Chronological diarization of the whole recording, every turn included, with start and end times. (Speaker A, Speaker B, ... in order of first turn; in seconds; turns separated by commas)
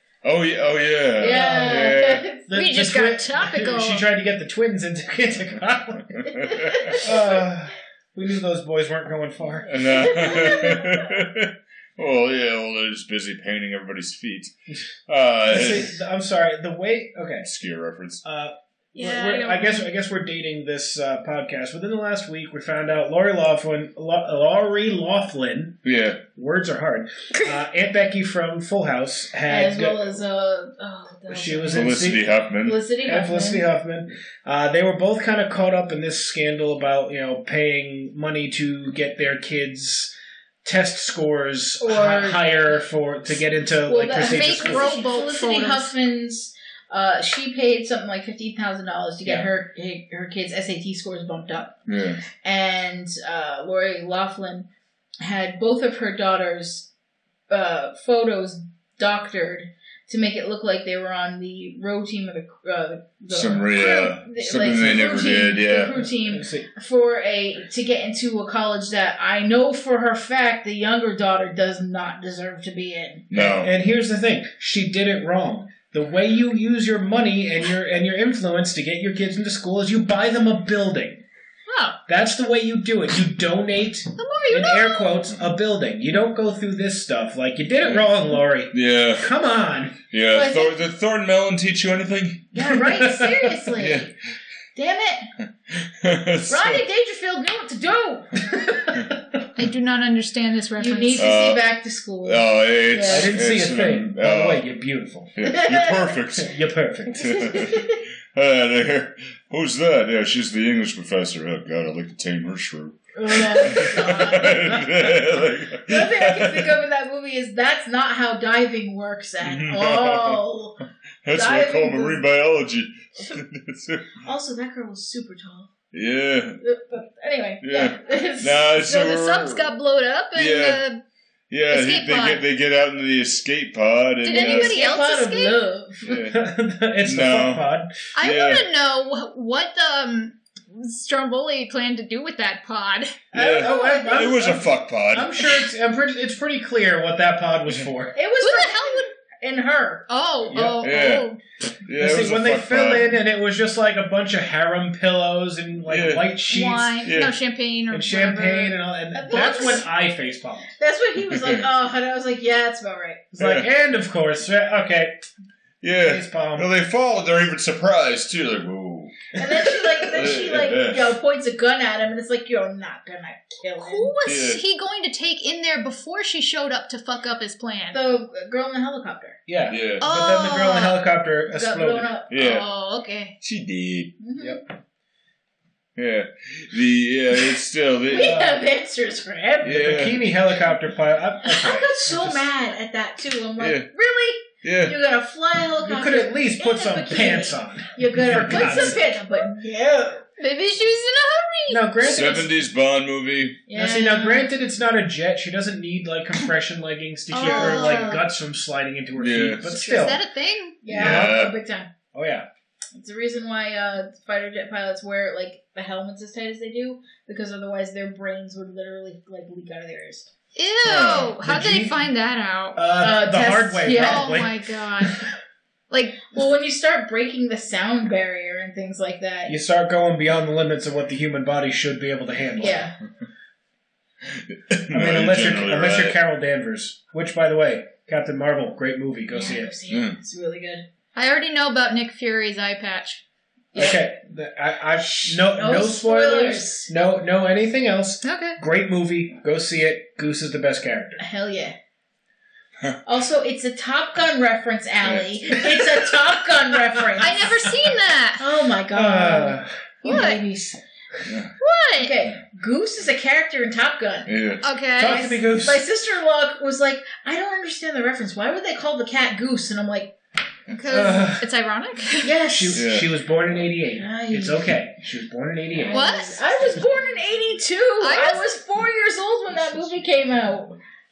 Speaker A: 0.2-2.2, Speaker B: 1.2-2.4, Speaker C: 1.2-1.9, Speaker C: 2.5-6.3, Speaker D: 2.5-4.0, Speaker A: 6.1-7.0, Speaker B: 6.3-7.4, Speaker C: 6.9-10.1, Speaker A: 9.7-14.5, Speaker B: 9.8-11.1, Speaker A: 15.1-15.9, Speaker C: 15.5-17.5, Speaker A: 17.4-18.2, Speaker C: 18.2-30.2, Speaker D: 18.9-19.9, Speaker A: 25.8-26.2, Speaker B: 29.5-32.0, Speaker C: 31.3-32.2, Speaker A: 31.7-32.8, Speaker B: 32.6-33.6, Speaker C: 33.0-40.1, Speaker C: 40.6-45.0, Speaker B: 41.8-42.7, Speaker B: 43.8-51.8, Speaker D: 44.1-45.9, Speaker A: 51.9-52.2, Speaker B: 52.4-54.7, Speaker B: 55.2-56.9, Speaker B: 57.5-73.2, Speaker A: 63.3-66.0, Speaker C: 64.7-65.0, Speaker C: 65.8-66.7, Speaker A: 73.3-73.7, Speaker C: 73.3-81.2, Speaker D: 81.7-82.0, Speaker C: 82.0-90.0, Speaker D: 84.2-85.1, Speaker A: 88.7-89.3, Speaker A: 90.1-92.5, Speaker B: 90.3-90.7, Speaker B: 92.5-94.1, Speaker C: 92.7-93.6, Speaker A: 93.8-94.1, Speaker B: 94.7-95.3, Speaker A: 95.7-96.8, Speaker B: 96.5-98.9, Speaker D: 99.5-101.3, Speaker B: 100.8-103.4, Speaker A: 101.2-101.6, Speaker A: 102.2-104.6, Speaker C: 103.0-105.3, Speaker A: 105.3-106.5, Speaker B: 105.4-106.2, Speaker C: 106.4-107.6, Speaker A: 107.1-116.8, Speaker B: 107.2-108.0, Speaker B: 113.2-114.8, Speaker B: 115.9-120.8, Speaker A: 119.4-120.4, Speaker A: 121.2-124.2, Speaker B: 121.3-122.2, Speaker B: 124.2-125.7, Speaker A: 125.9-126.6, Speaker B: 126.6-128.7, Speaker A: 127.6-129.7, Speaker D: 128.8-131.0, Speaker A: 130.3-130.8, Speaker A: 131.5-134.7, Speaker D: 131.7-132.4, Speaker D: 134.2-135.6, Speaker B: 134.3-136.1, Speaker A: 136.0-136.4, Speaker C: 136.1-137.9, Speaker A: 137.0-138.6, Speaker D: 138.1-143.1, Speaker B: 143.3-144.6, Speaker A: 143.3-145.4, Speaker C: 143.4-148.1, Speaker B: 148.1-150.1, Speaker D: 148.4-149.1, Speaker D: 150.1-151.4, Speaker C: 150.5-150.8, Speaker A: 150.8-151.2, Speaker A: 151.8-153.2, Speaker C: 152.0-157.0, Speaker A: 155.9-156.3, Speaker D: 156.5-158.8, Speaker A: 157.0-157.3, Speaker C: 157.9-160.7, Speaker B: 159.1-159.8, Speaker D: 159.3-159.8, Speaker B: 160.8-163.2, Speaker A: 161.2-161.6, Speaker C: 163.3-165.2, Speaker A: 163.4-163.7, Speaker A: 165.8-169.2, Speaker C: 166.0-166.7, Speaker B: 169.3-174.1, Speaker A: 169.8-171.1, Speaker D: 173.8-178.0, Speaker A: 174.2-174.6, Speaker B: 177.9-179.4, Speaker C: 179.5-182.1, Speaker A: 179.7-180.0, Speaker D: 180.0-181.0, Speaker B: 181.5-182.3, Speaker A: 182.3-182.7, Speaker D: 182.3-183.3, Speaker A: 183.4-184.2, Speaker B: 184.2-184.6, Speaker A: 185.9-188.3, Speaker B: 188.1-190.0, Speaker C: 188.2-188.6, Speaker A: 189.6-190.3, Speaker C: 189.7-192.4, Speaker B: 191.4-200.2, Speaker A: 193.6-193.9, Speaker A: 194.6-194.9, Speaker C: 195.8-199.1, Speaker D: 200.4-202.3, Speaker C: 201.7-202.5, Speaker A: 202.0-203.6, Speaker B: 203.7-204.5, Speaker C: 203.7-210.2, Speaker D: 207.3-208.2, Speaker B: 207.3-208.2, Speaker A: 209.1-209.8, Speaker D: 209.7-210.8, Speaker B: 210.8-211.9, Speaker C: 210.9-211.4, Speaker A: 210.9-211.5, Speaker C: 212.1-212.5, Speaker B: 212.9-220.3, Speaker D: 220.6-222.8, Speaker A: 220.8-221.4, Speaker C: 221.4-222.0, Speaker C: 222.8-225.2, Speaker B: 223.0-224.4, Speaker D: 223.9-225.2, Speaker D: 225.9-226.2, Speaker B: 226.3-229.5, Speaker C: 229.5-232.8, Speaker B: 232.6-232.9, Speaker A: 234.4-236.2, Speaker C: 234.9-239.7, Speaker B: 239.3-240.8, Speaker A: 239.9-240.2, Speaker D: 241.1-243.2, Speaker B: 243.7-244.0, Speaker C: 243.7-251.2, Speaker B: 245.0-246.9, Speaker D: 248.2-248.6, Speaker B: 251.2-251.8, Speaker B: 253.0-257.6, Speaker A: 255.0-255.6, Speaker C: 257.2-257.4, Speaker D: 257.2-258.4, Speaker B: 258.4-260.8, Speaker C: 258.9-260.2, Speaker D: 260.0-260.4, Speaker A: 261.2-261.5, Speaker D: 261.6-262.1, Speaker B: 262.0-264.3, Speaker A: 264.3-264.6, Speaker D: 264.6-265.4, Speaker C: 265.0-265.8, Speaker B: 265.0-270.1, Speaker D: 270.7-272.4, Speaker C: 270.9-271.4, Speaker B: 272.2-272.8, Speaker C: 272.4-276.0, Speaker A: 272.7-273.1, Speaker B: 274.0-274.7, Speaker B: 275.8-280.8, Speaker D: 275.9-276.4, Speaker D: 278.0-278.5